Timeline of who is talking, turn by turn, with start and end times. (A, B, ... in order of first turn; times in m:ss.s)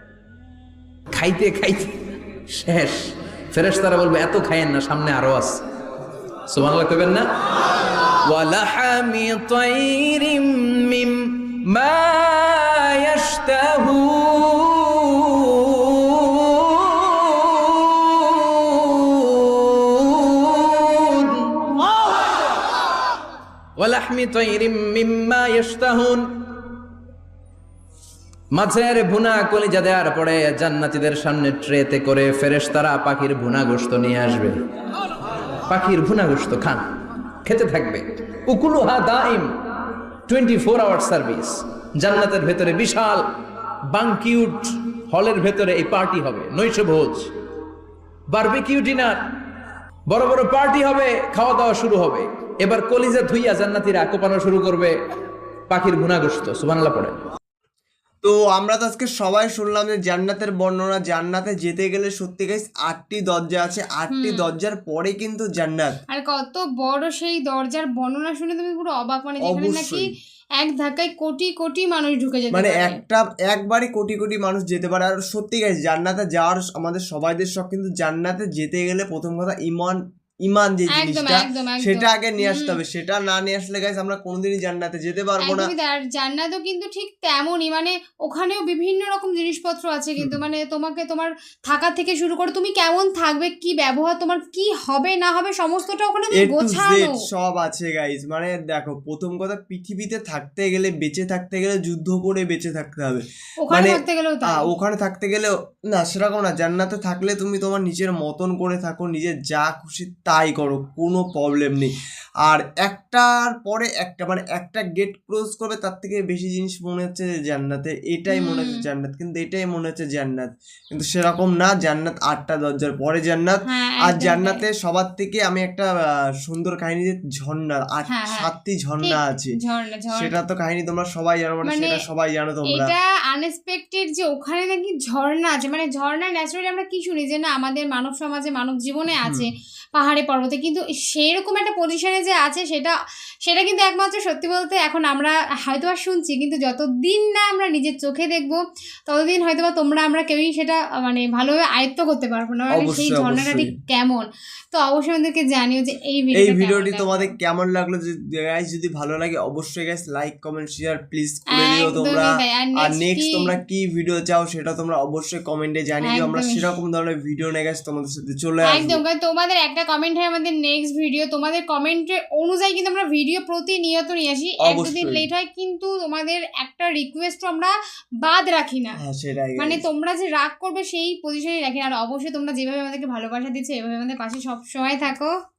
0:01.1-0:05.6 A
0:06.5-0:07.3 A
0:08.2-0:21.7 A
0:23.8-0:26.7 A
0:28.5-0:34.6 A
0:35.7-0:36.8 A
0:37.4-0:39.5 A
0:40.3-0:43.3 A
0:43.9-0:47.3 A
0:48.3-0:49.2 A
0:50.1-0:54.9 A
0:55.7-0:57.2 A
0:58.2-1:06.0 B
1:04.1-1:04.5 C
1:06.1-1:10.1 C
1:09.4-1:10.0 B
1:10.6-1:13.0 C
1:12.5-1:25.7 B
1:20.9-1:22.8 C
1:25.4-1:37.2 C
1:36.3-1:51.9 B
1:43.6-1:44.7 C
1:52.4-2:05.9 B
1:58.3-1:58.9 C
2:03.6-2:04.6 C
2:06.4-2:09.5 B
2:08.1-2:08.5 C
2:09.0-2:10.3 C
2:10.1-2:12.9 B
2:11.6-2:12.0 C
2:12.7-2:37.3 C
2:19.2-2:19.5 B
2:32.7-2:33.7 B
2:36.3-2:49.0 B
2:41.5-2:43.5 C
2:46.0-2:46.7 C
2:48.6-2:59.0 C
2:54.6-2:55.3 B
2:59.0-2:59.8 B
2:59.6-3:05.3 C